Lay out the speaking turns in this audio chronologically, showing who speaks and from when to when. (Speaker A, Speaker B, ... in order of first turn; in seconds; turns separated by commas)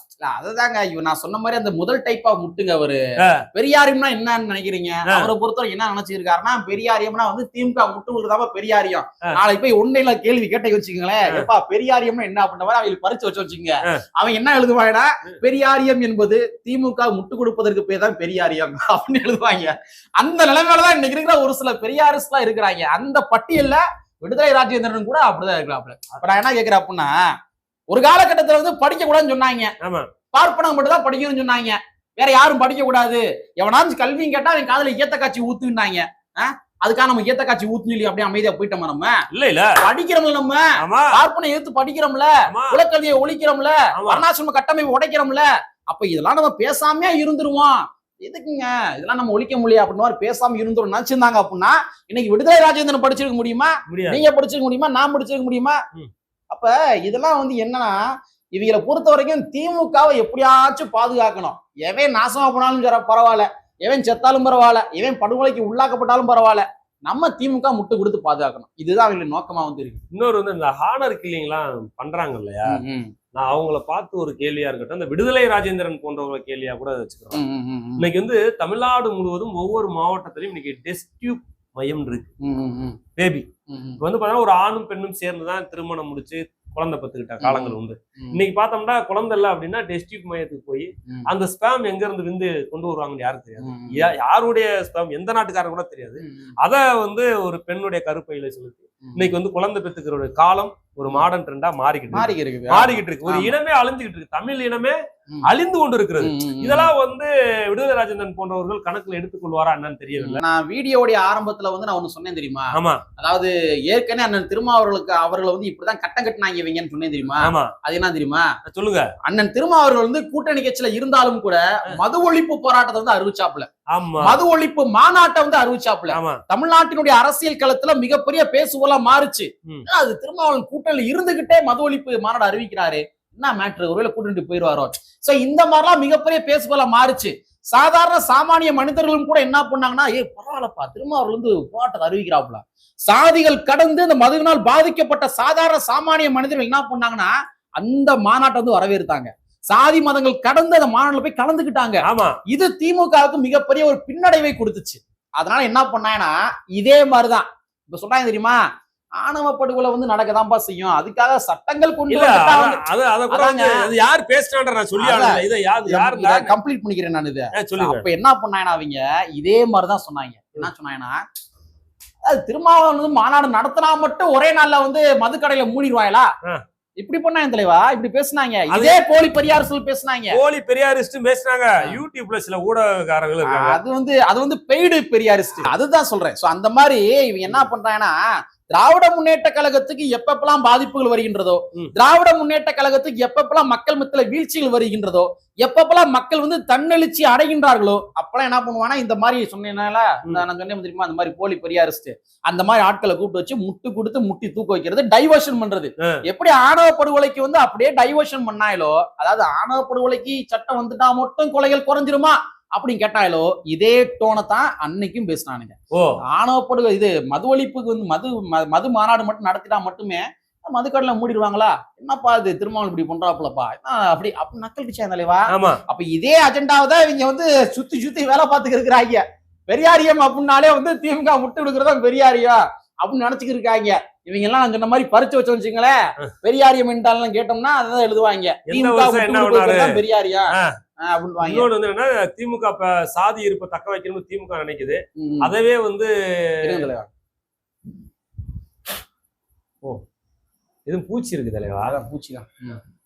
Speaker A: 0.2-3.0, Speaker A: 3.5-27.1, Speaker A: 27.9-29.7, Speaker B: 29.8-30.1, Speaker A: 30.3-39.1, Speaker B: 39.3-39.8, Speaker A: 39.8-55.8, Speaker B: 40.8-41.2, Speaker B: 42.5-42.8, Speaker B: 44.0-44.2, Speaker B: 53.9-54.2, Speaker A: 56.5-58.0, Speaker A: 58.5-70.0, Speaker B: 70.1-72.8, Speaker A: 72.7-73.1, Speaker B: 73.3-77.4, Speaker A: 77.3-78.1, Speaker B: 78.0-82.3, Speaker A: 82.4-83.0, Speaker B: 83.2-83.5, Speaker A: 83.7-84.0, Speaker B: 84.0-110.4, Speaker A: 87.4-88.4, Speaker A: 93.6-94.0, Speaker A: 96.2-96.5, Speaker A: 99.0-99.3, Speaker A: 102.1-103.5, Speaker A: 106.2-106.9, Speaker A: 110.2-118.5, Speaker B: 112.7-113.0, Speaker B: 117.4-117.7, Speaker B: 118.6-119.1, Speaker A: 119.2-123.7, Speaker B: 123.9-124.4, Speaker A: 124.2-158.6, Speaker B: 126.1-126.4, Speaker B: 152.0-152.4, Speaker A: 159.2-163.9, Speaker B: 162.1-166.5, Speaker A: 165.0-171.2, Speaker B: 167.6-168.0, Speaker A: 172.2-176.3, Speaker A: 177.0-180.4, Speaker B: 178.7-179.0, Speaker B: 180.3-183.8, Speaker A: 183.4-188.2, Speaker A: 188.7-215.8, Speaker B: 215.9-216.2, Speaker A: 216.3-241.7, Speaker B: 225.5-225.8, Speaker B: 238.7-240.0, Speaker B: 241.4-246.9, Speaker A: 245.2-245.5, Speaker A: 246.6-247.1, Speaker B: 250.9-251.9, Speaker A: 251.8-252.8